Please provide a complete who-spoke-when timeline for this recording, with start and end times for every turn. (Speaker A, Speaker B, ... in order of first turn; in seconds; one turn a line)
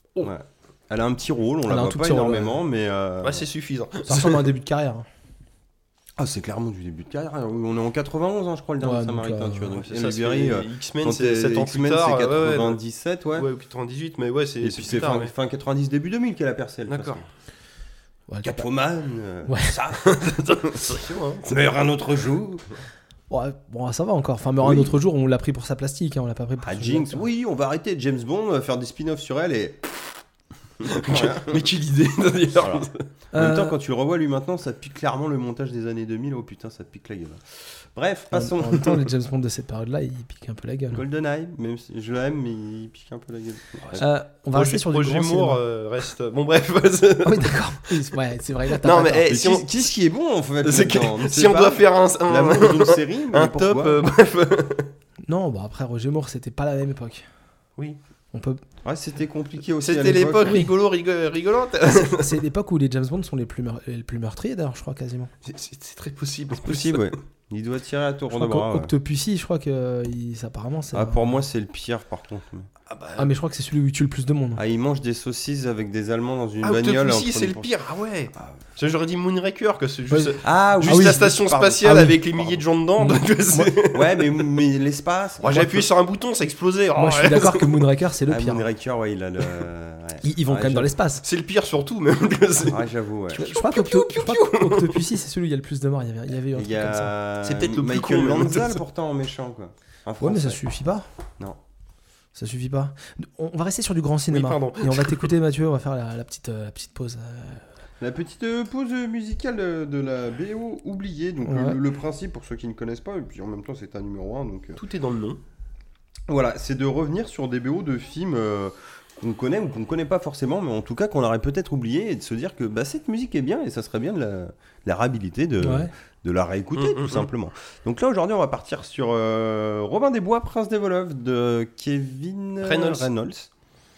Speaker A: 0.2-3.5
Speaker B: 1.7-2.6
Speaker C: 3.2-4.4
Speaker B: 4.1-5.1
Speaker A: 6.2-13.5
Speaker B: 8.8-9.7
Speaker C: 9.8-12.8
Speaker C: 13.3-15.3
Speaker A: 14.6-17.2
Speaker C: 16.9-17.2
Speaker B: 18.3-18.7
Speaker A: 18.4-20.8
Speaker B: 19.5-19.7
Speaker C: 20.0-21.6
Speaker A: 21.5-22.6
Speaker B: 23.3-27.2
Speaker A: 24.6-25.0
Speaker A: 26.6-29.8
Speaker A: 30.8-31.6
Speaker C: 30.9-33.0
Speaker A: 32.5-39.0
Speaker B: 33.3-33.8
Speaker B: 38.3-41.0
Speaker A: 40.9-44.0
Speaker B: 44.0-45.6
Speaker C: 44.5-47.9
Speaker B: 47.2-49.3
Speaker C: 48.8-49.8
Speaker A: 49.3-54.0
Speaker C: 50.6-54.9
Speaker B: 55.3-57.3
Speaker B: 58.3-58.6
Speaker A: 58.8-60.6
Speaker C: 59.8-62.3
Speaker B: 62.1-65.3
Speaker C: 65.4-67.2
Speaker A: 66.5-68.9
Speaker B: 68.3-71.4
Speaker A: 70.9-72.7
Speaker C: 72.9-73.3
Speaker B: 73.2-74.6
Speaker A: 74.5-77.7
Speaker C: 76.6-84.6
Speaker B: 80.1-81.3
Speaker A: 80.4-82.6
Speaker B: 81.8-82.2
Speaker B: 83.0-83.7
Speaker A: 83.9-85.9
Speaker C: 85.4-87.8
Speaker B: 87.0-88.7
Speaker A: 88.3-90.9
Speaker B: 90.2-91.2
Speaker C: 91.2-92.8
Speaker A: 92.6-93.5
Speaker B: 93.3-97.1
Speaker C: 93.4-95.1
Speaker A: 96.5-100.6
Speaker C: 97.4-98.8
Speaker B: 100.2-101.0
Speaker B: 102.3-107.7
Speaker C: 104.3-105.3
Speaker A: 108.0-114.8
Speaker B: 111.5-111.8
Speaker C: 114.8-115.4
Speaker A: 116.3-133.5
Speaker B: 125.6-125.9
Speaker C: 126.8-127.3
Speaker C: 132.6-133.1